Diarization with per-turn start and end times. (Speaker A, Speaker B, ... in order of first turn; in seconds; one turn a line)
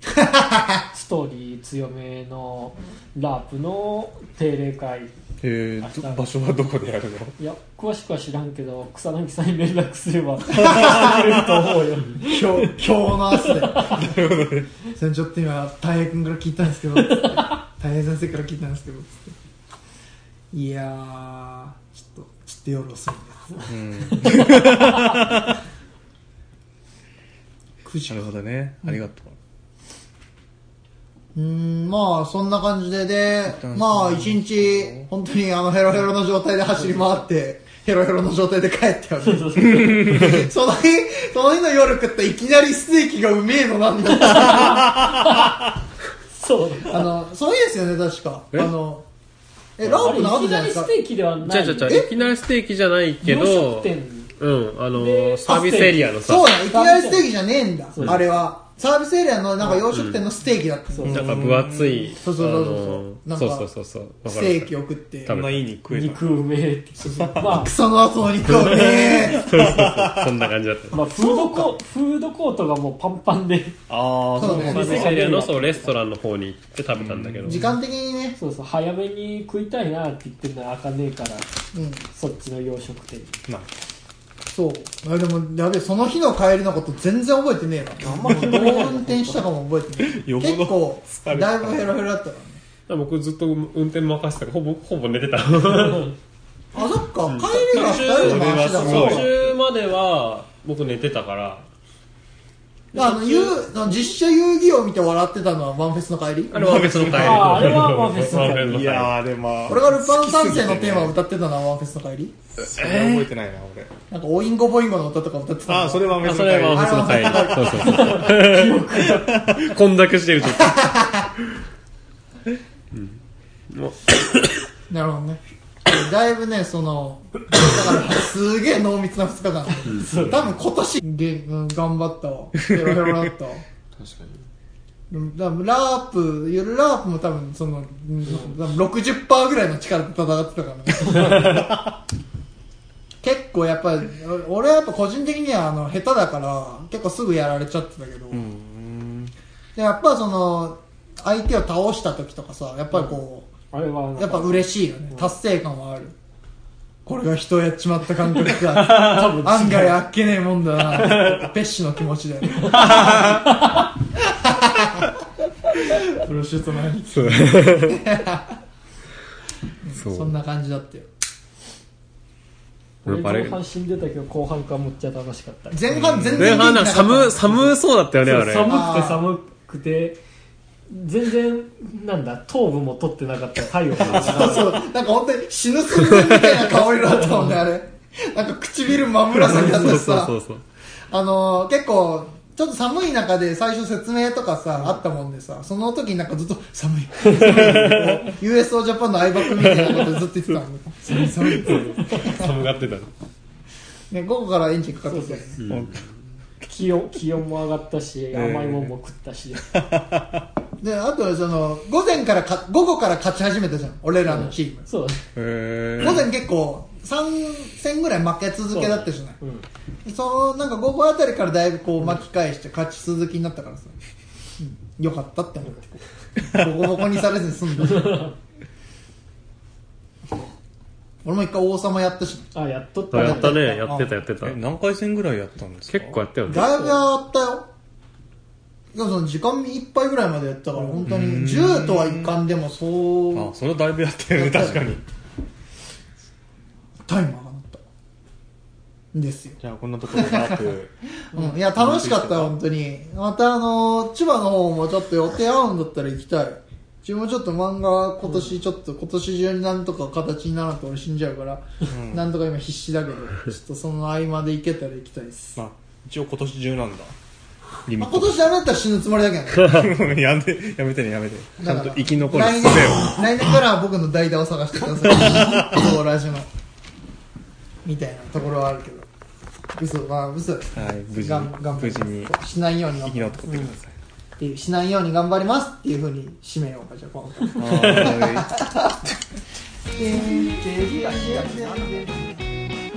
Speaker A: 0.1-0.8
Speaker B: 0.9-5.1
Speaker C: 5.4-7.3
Speaker B: 5.8-6.2
Speaker B: 7.4-12.7
Speaker A: 10.6-11.1
Speaker C: 10.6-11.4
Speaker A: 12.2-14.2
Speaker B: 13.4-14.0
Speaker C: 13.8-14.7
Speaker A: 14.9-19.3
Speaker B: 17.1-17.4
Speaker A: 20.5-23.7
Speaker C: 23.7-25.6
Speaker B: 24.4-25.1
Speaker A: 27.8-28.2
Speaker C: 28.1-29.4
Speaker A: 31.3-45.0
Speaker C: 33.5-35.1
Speaker B: 39.2-40.5
Speaker C: 39.8-40.2
Speaker B: 44.1-45.6
Speaker C: 44.8-45.5
Speaker B: 46.3-47.0
Speaker A: 46.9-49.0
Speaker A: 49.8-50.9
Speaker D: 49.8-50.3
Speaker B: 50.0-52.1
Speaker D: 51.4-56.5
Speaker B: 53.2-54.3
Speaker B: 54.9-55.9
Speaker A: 55.5-61.2
Speaker B: 56.7-57.3
Speaker B: 57.9-58.2
Speaker D: 59.9-60.2
Speaker B: 60.9-61.3
Speaker C: 61.0-62.1
Speaker D: 61.1-64.7
Speaker A: 62.2-63.6
Speaker A: 64.2-65.3
Speaker D: 65.2-65.7
Speaker C: 65.3-66.2
Speaker B: 65.9-67.7
Speaker A: 67.0-69.7
Speaker C: 67.2-67.5
Speaker D: 68.5-71.0
Speaker C: 69.0-70.5
Speaker B: 70.9-73.8
Speaker A: 71.1-71.7
Speaker C: 73.9-75.1
Speaker A: 74.3-75.1
Speaker B: 74.3-76.0
Speaker D: 74.6-77.7
Speaker C: 77.0-77.7
Speaker A: 77.4-78.4
Speaker B: 78.3-81.5
Speaker A: 81.7-82.0
Speaker B: 82.1-83.4
Speaker A: 84.5-92.6
Speaker B: 88.0-89.4
Speaker C: 88.1-89.0
Speaker C: 90.0-92.0
Speaker D: 92.9-96.2
Speaker A: 96.7-99.3
Speaker D: 97.3-101.7
Speaker C: 98.2-99.3
Speaker A: 102.9-106.9
Speaker B: 103.0-104.0
Speaker D: 106.5-109.2
Speaker C: 106.5-111.2
Speaker B: 107.1-108.9
Speaker A: 109.7-112.3
Speaker C: 112.5-113.9
Speaker D: 112.8-113.3
Speaker A: 114.1-118.2
Speaker C: 115.7-117.8
Speaker D: 116.2-118.8
Speaker B: 117.6-119.5
Speaker C: 119.1-119.7
Speaker D: 119.5-121.0
Speaker A: 120.4-121.3
Speaker D: 122.9-124.5
Speaker A: 124.9-133.6
Speaker B: 129.7-130.4
Speaker D: 129.8-130.2
Speaker C: 132.8-133.2
Speaker D: 133.9-134.4
Speaker A: 135.1-141.7
Speaker B: 138.2-138.5
Speaker C: 141.1-141.9
Speaker A: 143.2-148.4
Speaker C: 148.3-149.3
Speaker A: 149.7-153.5
Speaker B: 153.7-155.3
Speaker A: 154.2-156.1
Speaker A: 157.1-163.5
Speaker D: 158.7-159.0
Speaker B: 158.8-160.0
Speaker B: 162.6-163.9
Speaker D: 162.6-163.4
Speaker A: 164.2-165.1
Speaker A: 165.8-168.6
Speaker D: 167.1-168.0
Speaker A: 169.8-171.1
Speaker D: 169.9-170.3
Speaker B: 173.0-175.8
Speaker D: 173.1-173.6
Speaker A: 175.7-177.8
Speaker C: 175.9-176.7
Speaker D: 176.3-178.8
Speaker B: 178.2-180.2
Speaker A: 178.6-179.2
Speaker B: 180.9-184.8
Speaker A: 184.1-190.3
Speaker D: 184.2-184.6
Speaker D: 185.9-186.6
Speaker B: 187.0-187.6
Speaker D: 189.3-190.6
Speaker A: 191.1-202.5
Speaker D: 197.4-198.2
Speaker D: 199.5-200.2
Speaker B: 201.1-202.3
Speaker D: 201.5-203.1
Speaker A: 204.1-205.6
Speaker B: 205.1-205.5
Speaker D: 205.6-206.1
Speaker C: 205.7-206.0
Speaker B: 206.6-209.7
Speaker C: 208.3-208.9
Speaker C: 209.6-210.5
Speaker A: 210.8-214.8
Speaker B: 214.2-215.2
Speaker C: 215.3-216.3
Speaker A: 216.0-219.4
Speaker B: 218.7-219.7
Speaker A: 220.0-223.9
Speaker A: 224.6-225.8
Speaker B: 225.6-226.0
Speaker A: 226.4-228.2
Speaker B: 227.8-228.3
Speaker A: 231.2-232.5
Speaker B: 232.5-233.6
Speaker D: 233.1-234.6
Speaker A: 233.1-234.1
Speaker C: 234.4-236.2
Speaker D: 235.9-236.8
Speaker A: 236.5-237.6
Speaker B: 236.6-237.0
Speaker A: 238.9-243.5
Speaker C: 241.0-242.4
Speaker C: 243.3-245.0
Speaker A: 244.3-244.9
Speaker A: 247.1-247.8
Speaker A: 249.1-249.6
Speaker C: 249.6-250.9
Speaker A: 250.1-250.7
Speaker A: 251.3-265.6
Speaker C: 251.7-252.6
Speaker B: 258.2-258.5
Speaker C: 261.9-262.2
Speaker C: 265.6-267.1
Speaker C: 267.9-268.3
Speaker A: 268.0-269.8
Speaker C: 269.6-273.1
Speaker A: 271.6-276.5
Speaker C: 275.1-275.8
Speaker A: 277.8-279.1
Speaker A: 279.7-283.4
Speaker C: 280.7-282.3
Speaker C: 283.0-283.9
Speaker B: 283.4-283.8
Speaker A: 284.4-288.9
Speaker C: 287.5-288.6
Speaker A: 289.9-292.4
Speaker B: 290.3-291.9